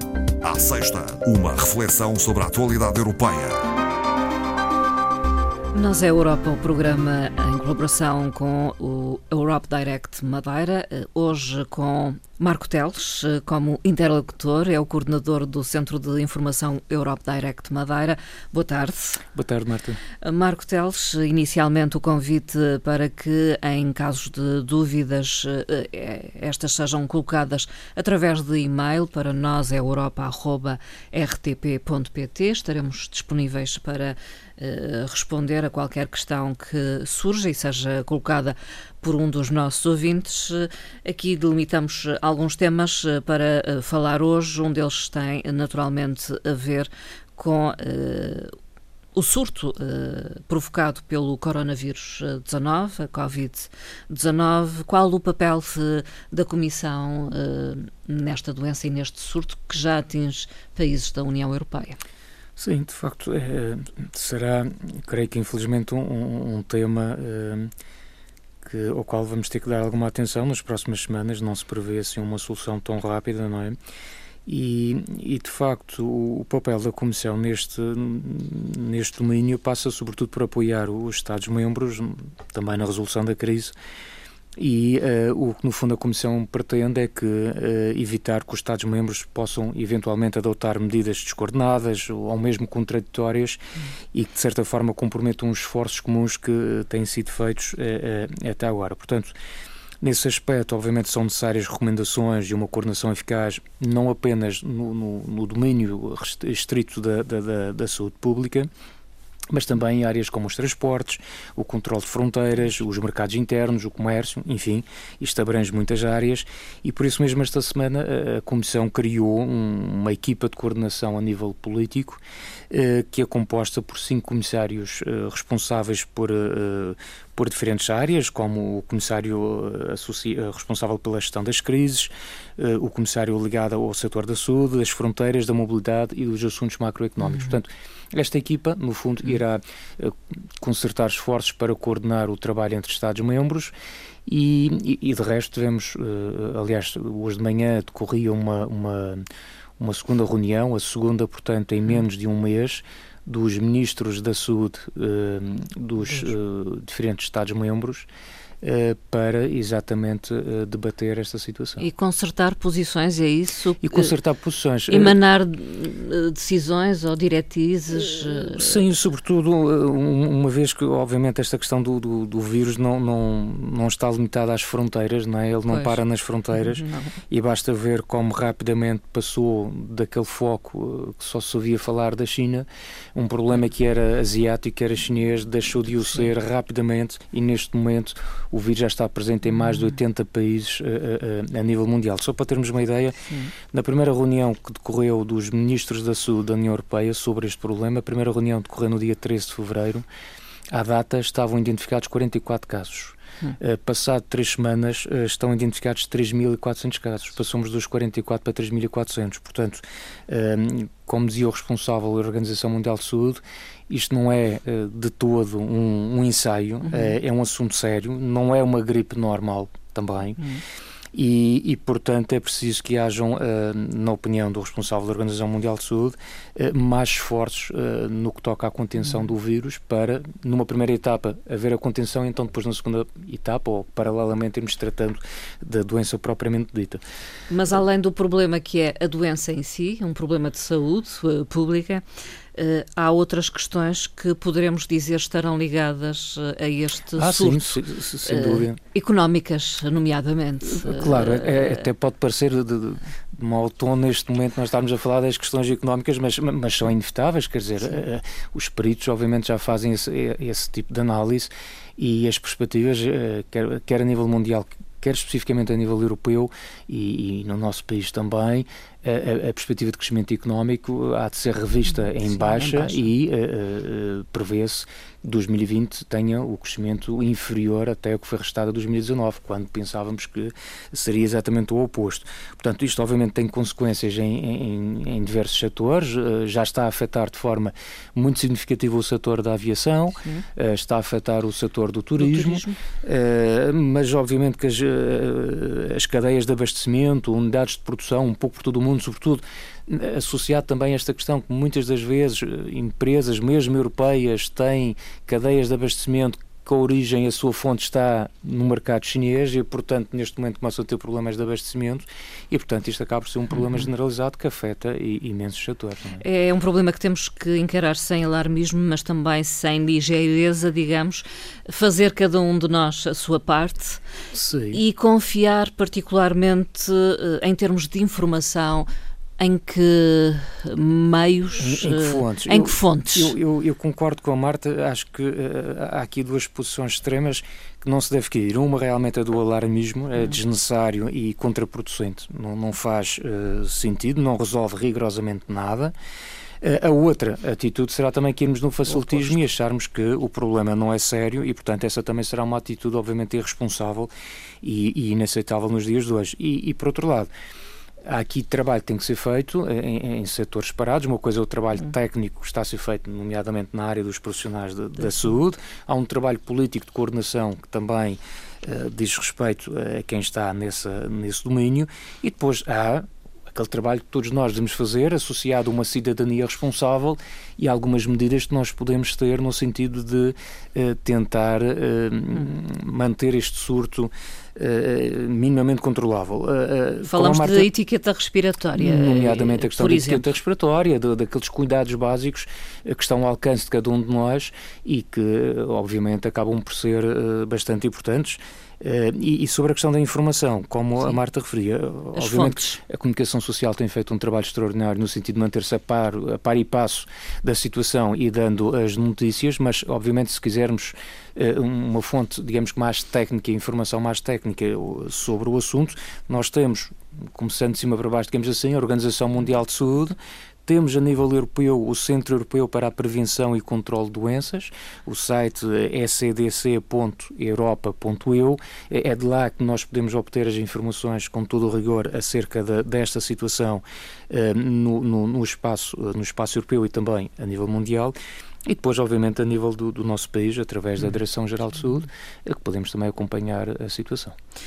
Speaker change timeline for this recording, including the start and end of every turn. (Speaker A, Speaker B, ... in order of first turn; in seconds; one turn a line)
Speaker A: 0.4-3.6
Speaker B: 5.7-19.2
Speaker C: 19.3-20.0
Speaker B: 20.2-48.5
Speaker B: 49.1-62.0
Speaker C: 62.6-67.7
Speaker C: 68.6-73.8
Speaker C: 74.5-83.7
Speaker C: 84.6-93.6
Speaker C: 94.1-99.3
Speaker C: 100.0-108.7
Speaker C: 109.5-143.7
Speaker B: 137.2-137.5
Speaker C: 144.2-149.2
Speaker C: 149.8-158.1
Speaker C: 158.6-161.8
Speaker B: 161.8-164.2
Speaker C: 163.8-165.2
Speaker B: 164.9-168.8
Speaker C: 168.5-193.2
Speaker B: 175.7-176.0
Speaker B: 176.5-177.1
Speaker C: 193.7-200.1
Speaker C: 200.7-220.4
Speaker B: 216.8-217.2
Speaker B: 220.4-220.6
Speaker C: 221.1-237.0
Speaker B: 237.5-251.9
Speaker C: 247.1-248.8
Speaker C: 250.6-316.2
Speaker B: 271.9-273.1
Speaker B: 290.2-290.4
Speaker B: 292.2-292.8
Speaker B: 316.2-324.0
Speaker C: 324.3-324.8
Speaker B: 324.7-328.9
Speaker B: 329.4-333.4
Speaker C: 331.6-345.9
Speaker C: 346.6-354.1
Speaker B: 348.8-349.5
Speaker C: 354.6-357.3
Speaker C: 358.0-387.7
Speaker B: 387.1-390.3
Speaker C: 388.7-438.1
Speaker B: 402.1-402.8
Speaker C: 438.6-444.3